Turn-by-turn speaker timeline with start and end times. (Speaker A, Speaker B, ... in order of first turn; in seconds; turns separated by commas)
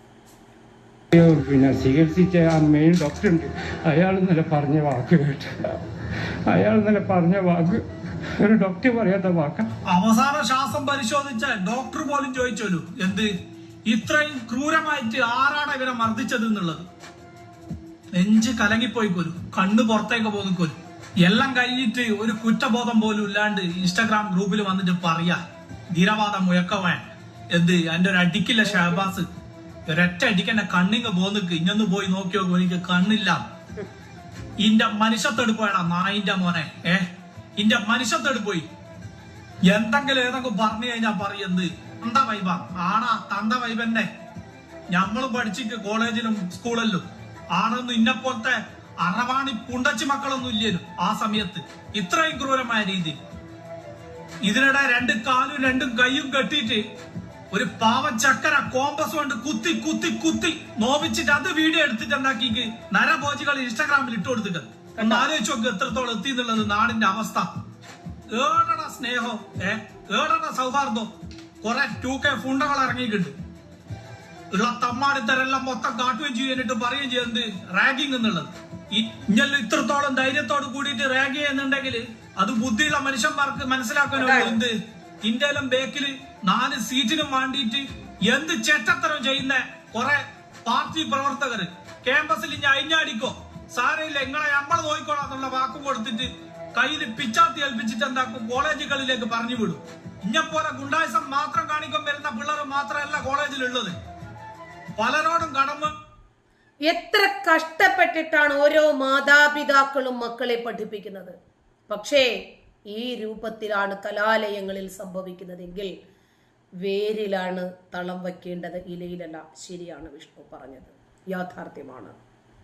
Speaker A: 1.1-5.8, Speaker A: 6.5-9.7, Speaker B: 9.9-13.3, Speaker B: 13.9-16.8, Speaker B: 18.2-25.4, Speaker B: 25.9-29.3, Speaker C: 28.7-29.0, Speaker B: 29.9-33.4, Speaker B: 34.6-38.7, Speaker B: 39.7-44.1, Speaker B: 44.9-53.2, Speaker B: 54.5-56.8, Speaker B: 57.5-67.5, Speaker C: 65.0-65.3, Speaker B: 68.3-71.1, Speaker B: 71.6-73.3, Speaker B: 74.5-104.0, Speaker C: 84.1-84.6, Speaker B: 105.0-105.9, Speaker C: 106.9-111.3, Speaker C: 111.9-112.3, Speaker C: 112.9-115.9, Speaker C: 116.8-122.2